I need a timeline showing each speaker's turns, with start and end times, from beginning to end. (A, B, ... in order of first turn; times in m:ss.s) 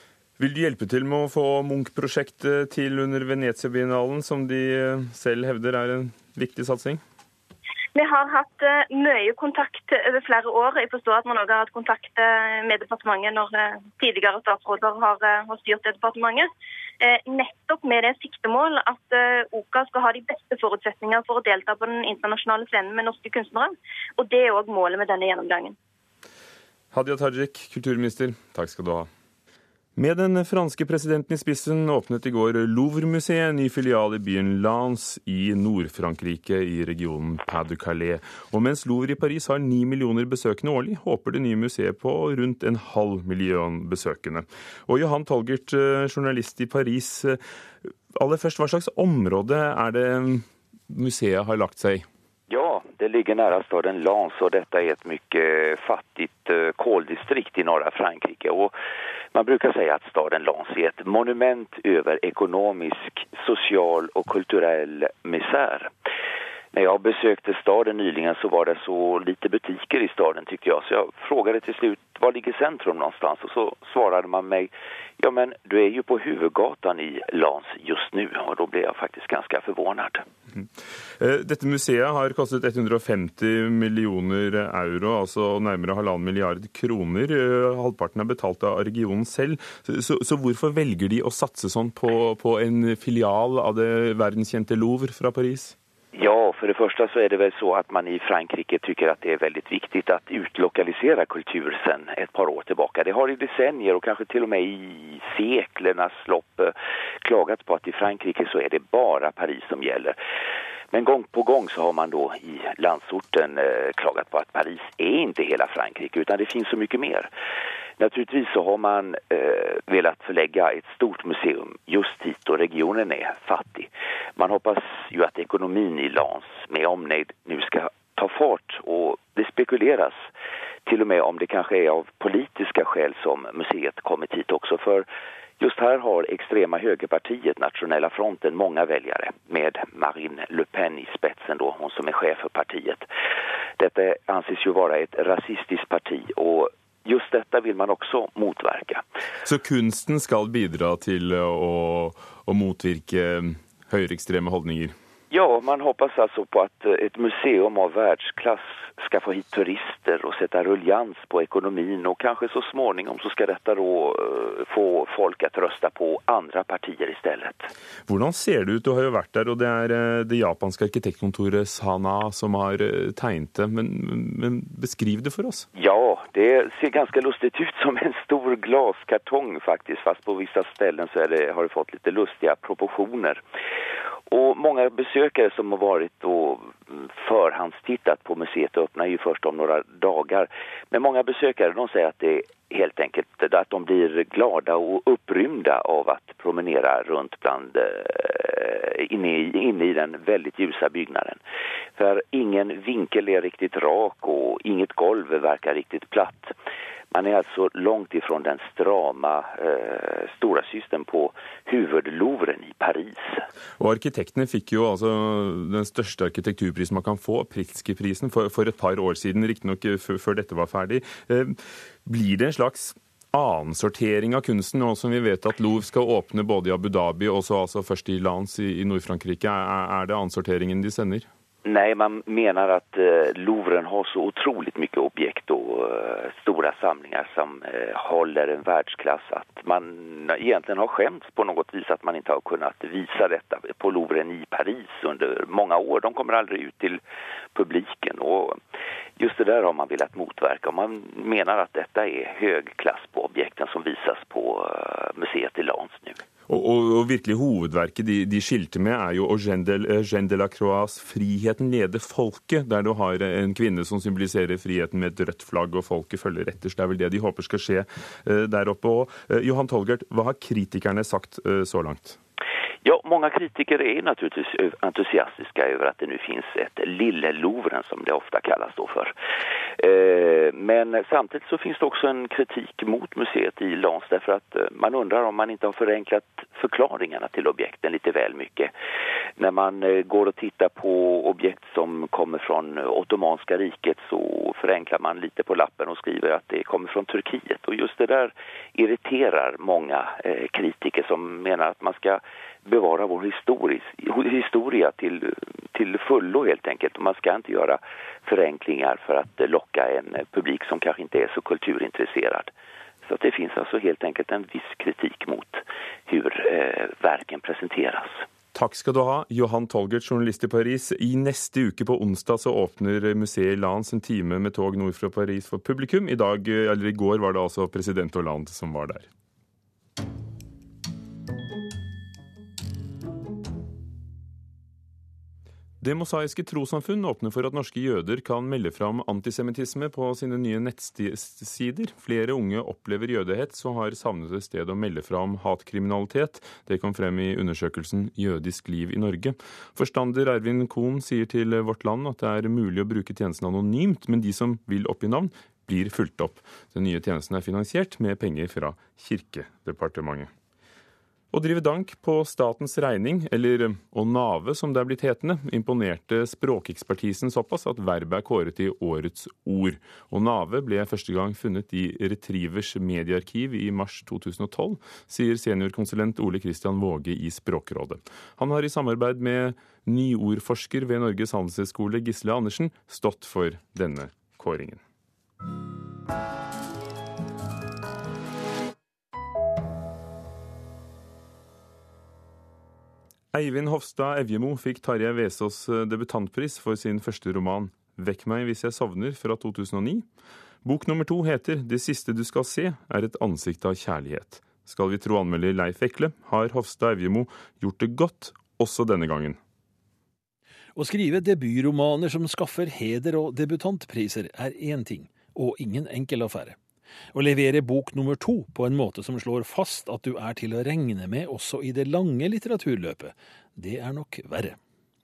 0:00.4-0:07.0 A
0:08.0-0:16.5 B
0:17.0-0:25.8 B
0:26.9-0:29.1 A
0:30.0-0:47.4 A
0:48.2-0:52.1 A
0:52.5-0:58.7 C
0:59.4-1:05.9 C
1:06.7-1:20.2 C
1:21.2-1:35.8 A
1:36.2-1:50.2 C
1:50.9-1:57.3 C
1:58.0-2:10.2 C
2:10.9-2:15.1 C
2:15.6-2:23.1 C
2:23.8-2:29.0 C
2:29.5-2:34.9 A
2:35.3-2:47.7 C
2:48.1-2:55.6 A
2:55.8-3:03.4 C
3:04.3-3:21.4 C
3:22.0-3:26.5 C
3:27.1-3:33.4 C
3:33.8-3:51.3 A
3:51.6-4:07.0 C
4:07.6-4:08.6 C
4:09.2-4:16.2 C
4:16.5-4:32.2 A
4:32.8-4:39.1 C
4:39.8-4:48.7 C
4:49.4-5:12.5 C
5:13.1-5:18.2 C
5:18.5-5:29.1 A
5:35.8-6:00.3 A
6:01.3-6:24.8 A
6:33.3-6:40.1 A
6:40.6-6:49.4 A
6:50.8-6:56.6 D
6:57.1-7:04.6 D